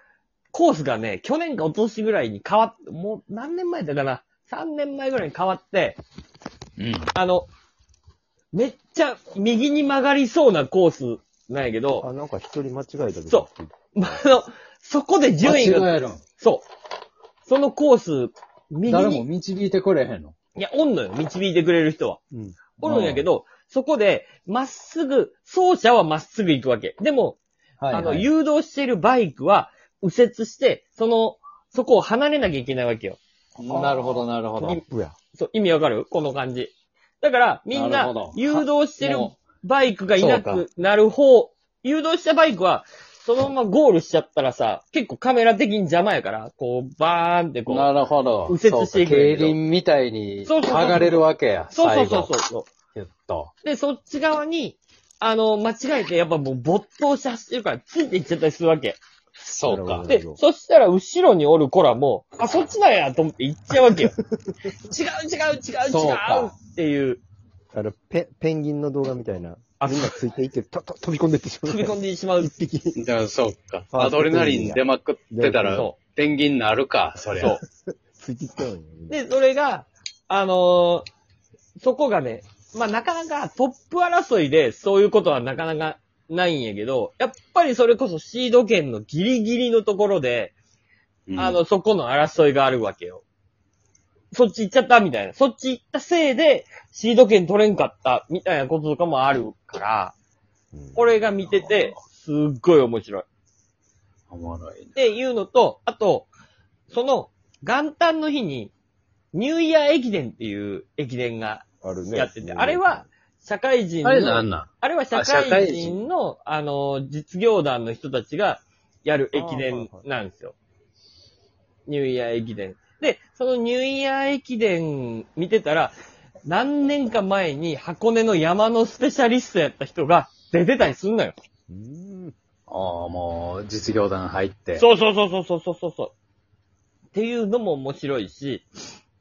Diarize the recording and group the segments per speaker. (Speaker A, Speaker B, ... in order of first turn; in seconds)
Speaker A: 0.5-6.0, 7.1-7.5, 8.5-12.0, 13.3-16.6, 17.4-19.2, 20.5-22.2, 22.8-27.4, 27.9-33.2, 35.3-47.9, 48.5-49.6, 50.4-51.2, 51.7-52.7, 53.6-59.0, 60.1-64.1, 64.7-67.2, 69.8-70.2, 71.7-72.5, 75.7-76.0, 79.1-81.1, 81.8-90.5, 91.3-93.2, 94.3-100.1, 101.0-103.3, 104.9-106.3, 106.9-108.7, 109.3-120.5, 121.9-131.3, 134.8-136.1, 137.1-138.7
Speaker B: 6.8-7.1, 15.4-16.2, 18.9-20.3, 22.8-23.3, 27.8-28.3, 33.6-34.8, 37.7-39.3, 40.2-40.6, 47.7-52.3, 52.9-53.5, 59.4-60.1, 65.9-66.5, 73.0-77.6, 91.3-91.6, 104.3-104.9, 114.0-116.0, 132.7-134.8
Speaker C: 12.0-14.3, 22.3-22.6, 33.7-35.1, 59.6-60.4, 63.9-64.6, 67.7-73.0, 73.9-75.9, 78.1-79.2, 100.7-101.1, 111.8-113.0, 119.3-120.0, 131.7-132.3